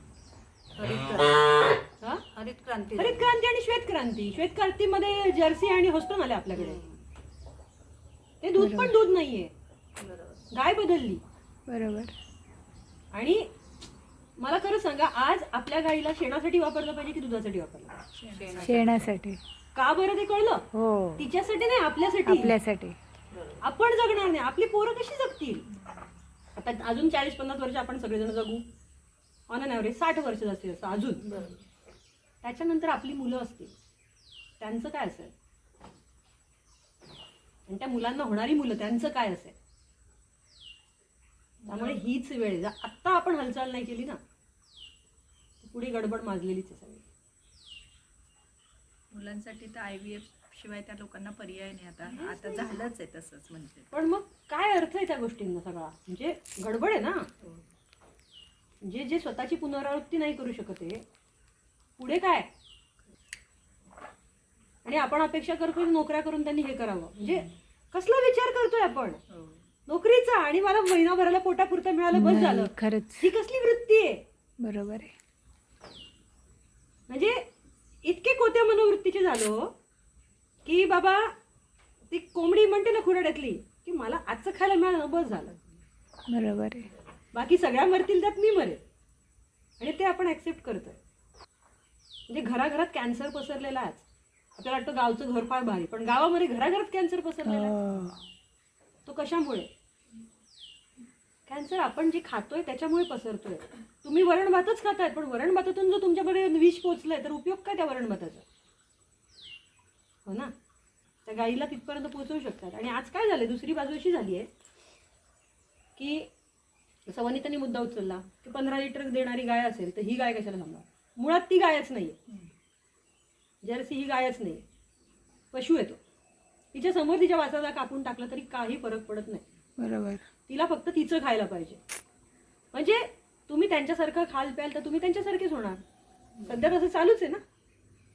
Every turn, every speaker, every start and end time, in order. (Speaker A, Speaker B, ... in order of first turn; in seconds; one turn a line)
Speaker A: 0.8-1.5
Speaker A: 2.3-3.3
Speaker B: 3.0-6.8
Speaker A: 6.5-7.0
Speaker B: 8.4-9.5
Speaker C: 8.6-9.0
Speaker A: 10.0-10.5
Speaker B: 10.5-11.2
Speaker C: 11.7-12.1
Speaker B: 13.1-13.5
Speaker B: 14.4-18.0
Speaker D: 18.2-19.1
Speaker A: 18.3-18.9
Speaker C: 18.6-19.4
Speaker B: 19.8-20.6
Speaker C: 20.7-21.3
Speaker B: 21.2-22.6
Speaker C: 22.2-23.0
Speaker A: 23.3-23.6
Speaker B: 23.6-25.6
Speaker B: 26.6-28.6
Speaker B: 29.5-31.3
Speaker A: 31.2-31.6
Speaker B: 32.4-33.7
Speaker B: 34.6-35.3
Speaker B: 37.7-39.5
Speaker D: 41.6-42.0
Speaker B: 41.7-44.2
Speaker B: 45.6-47.0
Speaker D: 49.1-53.9
Speaker B: 52.0-52.8
Speaker B: 53.9-57.3
Speaker B: 58.8-61.0
Speaker B: 62.0-62.5
Speaker B: 64.8-69.2
Speaker B: 69.9-74.2
Speaker C: 72.1-73.3
Speaker C: 74.6-75.1
Speaker B: 77.1-77.4
Speaker B: 78.0-79.7
Speaker B: 80.6-81.3
Speaker B: 82.1-85.6
Speaker C: 86.3-86.9
Speaker B: 87.3-88.8
Speaker B: 89.8-91.0
Speaker B: 92.3-97.8
Speaker C: 97.4-98.2
Speaker B: 99.0-99.7
Speaker B: 101.5-108.4
Speaker B: 110.2-110.5
Speaker B: 111.2-114.5
Speaker B: 116.0-116.3
Speaker B: 117.1-122.2
Speaker B: 123.6-124.6
Speaker B: 125.5-126.0
Speaker B: 126.7-129.4
Speaker C: 129.8-130.2
Speaker B: 130.5-131.8
Speaker B: 132.7-135.8
Speaker B: 136.4-137.4